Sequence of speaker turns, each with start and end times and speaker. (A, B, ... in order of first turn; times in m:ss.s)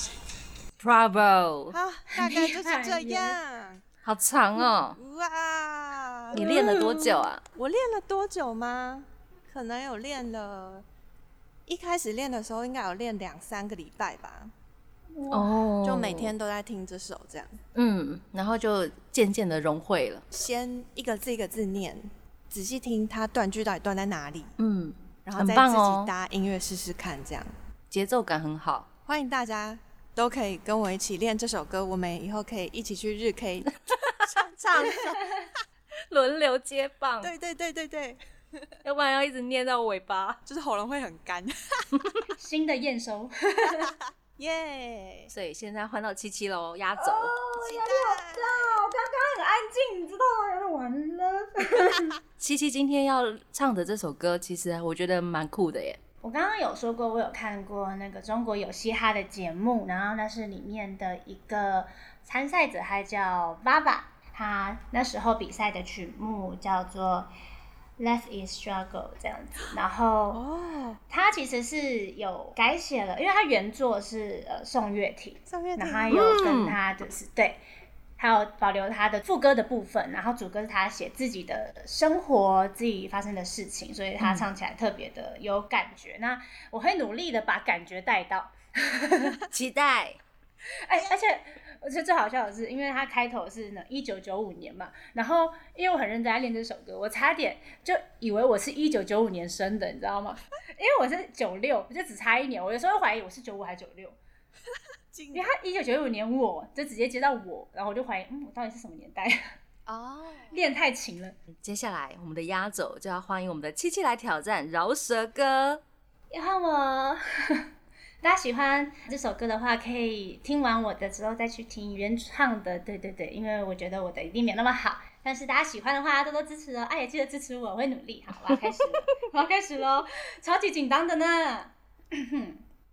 0:00.8-0:01.8 A
0:01.7-0:03.8 B
0:02.1-0:03.4 C
0:04.0-0:05.0 A
0:04.9-0:06.7 B
0:06.3-0:07.2 C
0:06.3-0:07.4 A
0:07.6-0:10.8 B
0:11.6-0:14.5 B
0:15.1-0:15.6 C
0:15.3-0:16.3 A
0:15.8-0:17.6 B
0:17.7-0:20.2 A
0:20.3-0:24.6 B
0:24.6-0:26.1 A
0:25.2-0:27.5 B
0:27.9-0:28.9 A
0:29.0-0:35.2 B
0:33.7-0:35.2 A
0:36.1-0:37.3 A
0:37.2-0:38.7 B
0:38.8-0:40.4 A
0:40.4-0:42.1 B
0:42.4-0:43.9 C
0:43.7-0:45.3 B
0:45.3-0:47.3 A
0:47.0-0:52.2 C
0:47.6-0:48.8 B
0:52.4-0:56.0 A
0:56.2-1:07.3 C
1:08.0-1:10.4 C
1:10.3-1:11.0 B
1:11.1-1:17.6 C
1:15.5-1:16.5 B
1:16.1-1:16.8 A
1:18.2-1:29.4 C
1:24.2-1:24.4 A
1:29.5-1:30.2 A
1:30.8-1:44.2 C
1:30.9-1:31.3 B
1:45.1-1:45.5 B
1:45.3-1:49.5 C
1:49.8-1:50.6 B
1:50.5-1:51.4 C
1:51.6-1:55.8 A
1:56.3-1:57.6 C
1:58.2-2:12.6 C